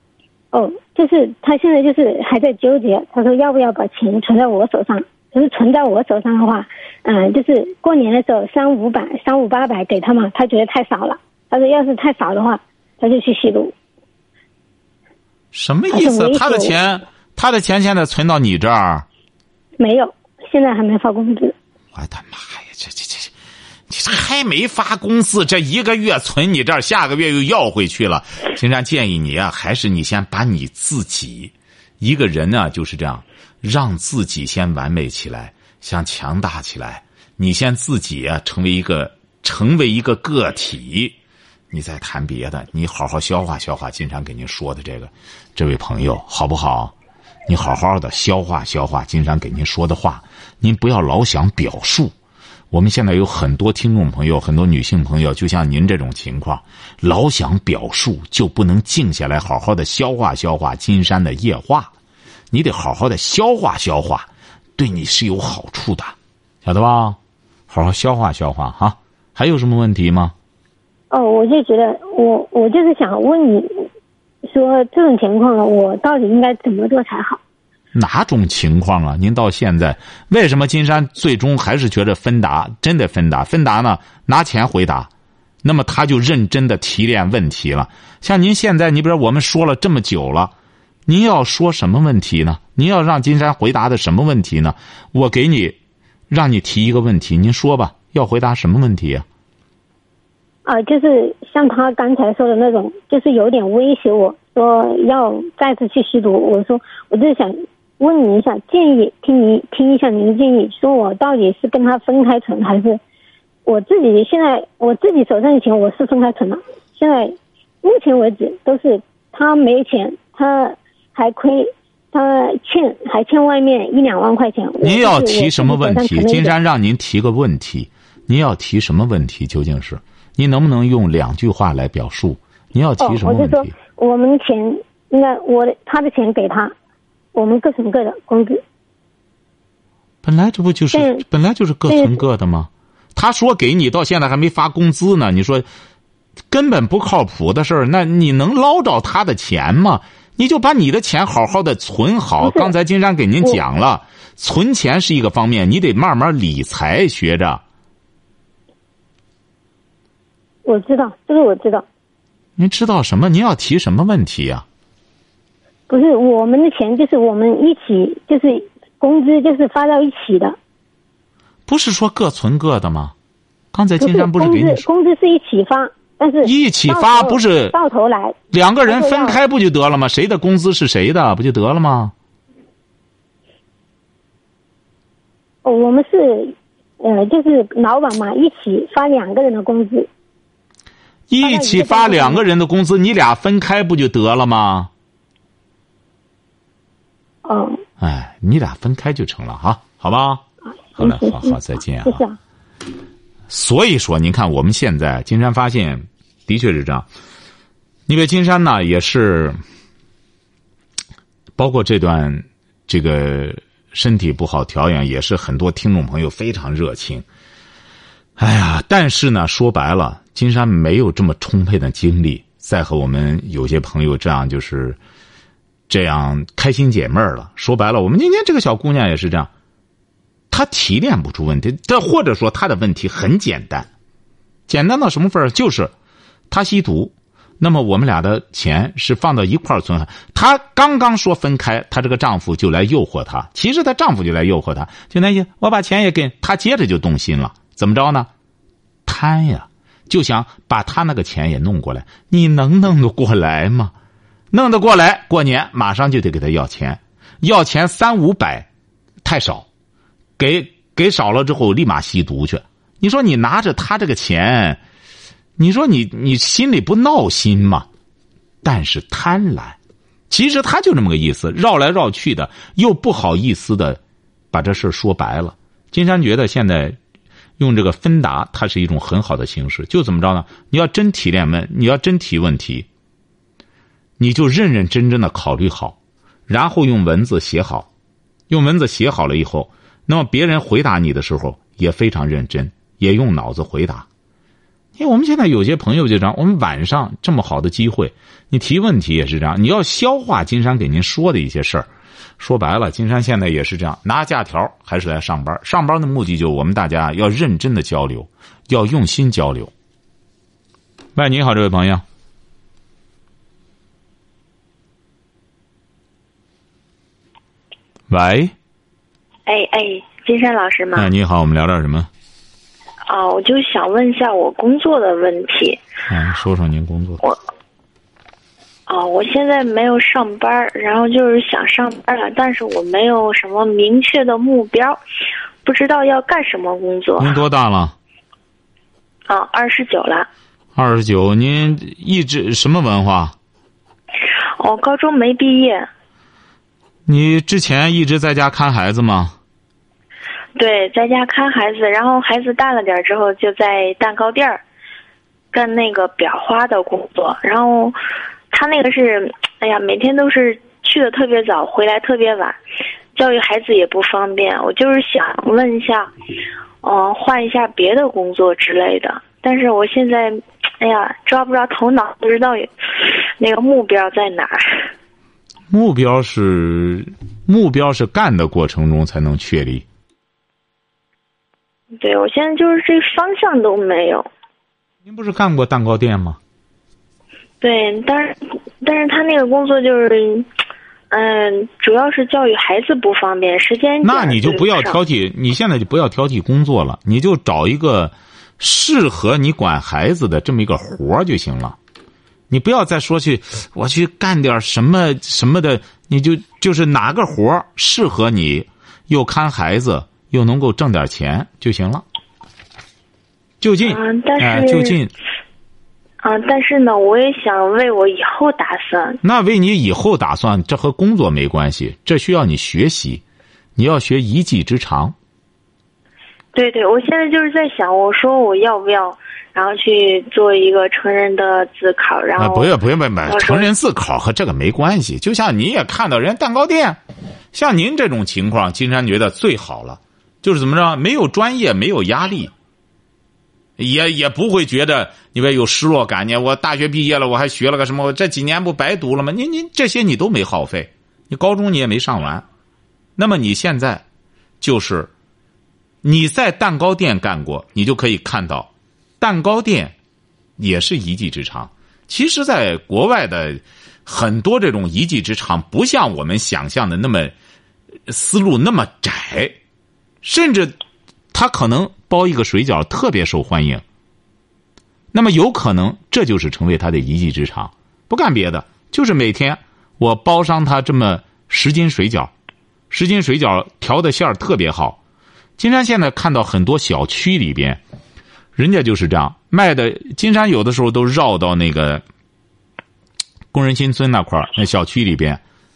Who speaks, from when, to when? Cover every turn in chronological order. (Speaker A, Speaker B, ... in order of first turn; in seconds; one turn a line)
Speaker A: 0.5-13.7
Speaker B: 15.5-19.0
Speaker A: 15.9-16.7
Speaker A: 19.8-21.5
Speaker B: 21.9-23.3
Speaker B: 23.9-41.1
Speaker B: 41.7-46.9
Speaker B: 47.5-52.1
Speaker B: 52.7-61.9
Speaker B: 62.5-67.2
Speaker B: 67.7-70.3
Speaker A: 71.1-73.9
Speaker A: 74.4-77.4
Speaker B: 77.9-85.1
Speaker B: 85.6-90.5
Speaker B: 91.1-95.8
Speaker B: 96.3-99.2
Speaker A: 100.7-113.0
Speaker A: 113.7-126.5
Speaker B: 124.8-133.7
Speaker A: 133.0-136.7
Speaker A: 137.3-138.6
Speaker B: 140.2-145.7
Speaker A: 140.9-141.2
Speaker A: 141.9-142.2
Speaker B: 146.5-157.6
Speaker A: 152.4-152.7
Speaker A: 160.6-161.8
Speaker B: 162.6-164.7
Speaker A: 165.9-170.6
Speaker B: 171.7-173.1
Speaker B: 173.7-174.8
Speaker A: 174.0-179.4
Speaker B: 176.4-177.7
Speaker B: 178.5-182.1
Speaker A: 185.6-190.1
Speaker B: 191.3-194.9
Speaker A: 191.4-192.4
Speaker A: 197.4-197.8
Speaker B: 198.0-200.4
Speaker B: 201.0-202.2
Speaker A: 201.0-202.4
Speaker B: 203.5-207.1
Speaker B: 208.1-209.6
Speaker B: 211.6-217.2
Speaker B: 218.4-225.0
Speaker B: 225.9-229.5
Speaker B: 230.5-233.9
Speaker B: 234.7-235.9
Speaker B: 236.5-248.3
Speaker B: 249.1-253.9
Speaker B: 254.5-258.7
Speaker B: 259.2-259.6
Speaker B: 260.4-264.8
Speaker B: 265.6-267.9
Speaker B: 268.6-269.8
Speaker B: 270.3-274.0
Speaker B: 274.5-277.0
Speaker B: 277.6-282.9
Speaker B: 284.2-286.0
Speaker B: 286.5-287.9
Speaker B: 288.5-294.1
Speaker B: 294.9-301.9
Speaker B: 302.4-309.7
Speaker B: 311.1-312.0
Speaker B: 318.1-318.5
Speaker C: 319.4-321.1
Speaker B: 320.9-322.1
Speaker C: 323.1-325.8
Speaker B: 326.1-327.2
Speaker C: 328.9-335.0
Speaker C: 335.6-337.4
Speaker B: 337.2-337.9
Speaker C: 339.3-340.3
Speaker B: 340.7-343.3
Speaker C: 344.6-345.9
Speaker B: 347.1-349.4
Speaker C: 350.6-354.6
Speaker C: 355.5-358.0
Speaker C: 358.5-362.6
Speaker C: 363.1-366.1
Speaker C: 366.8-374.9
Speaker B: 375.7-379.8
Speaker C: 381.9-384.3
Speaker B: 385.0-386.4
Speaker C: 387.6-390.5
Speaker C: 391.1-395.0
Speaker B: 394.0-401.8
Speaker B: 402.5-412.0
Speaker B: 413.6-415.1
Speaker C: 413.8-415.0
Speaker C: 416.2-419.2
Speaker B: 419.2-423.2
Speaker B: 423.8-425.1
Speaker C: 426.5-432.7
Speaker B: 432.4-437.0
Speaker C: 433.2-433.7
Speaker B: 437.5-442.5
Speaker B: 443.8-452.4
Speaker B: 453.2-454.0
Speaker B: 454.6-455.1
Speaker B: 456.0-459.9
Speaker B: 460.6-467.3
Speaker B: 468.1-469.6
Speaker B: 470.2-470.7
Speaker B: 471.3-473.8
Speaker B: 475.1-482.3
Speaker B: 482.9-485.0
Speaker B: 485.6-487.8
Speaker B: 488.5-492.0
Speaker B: 493.5-495.4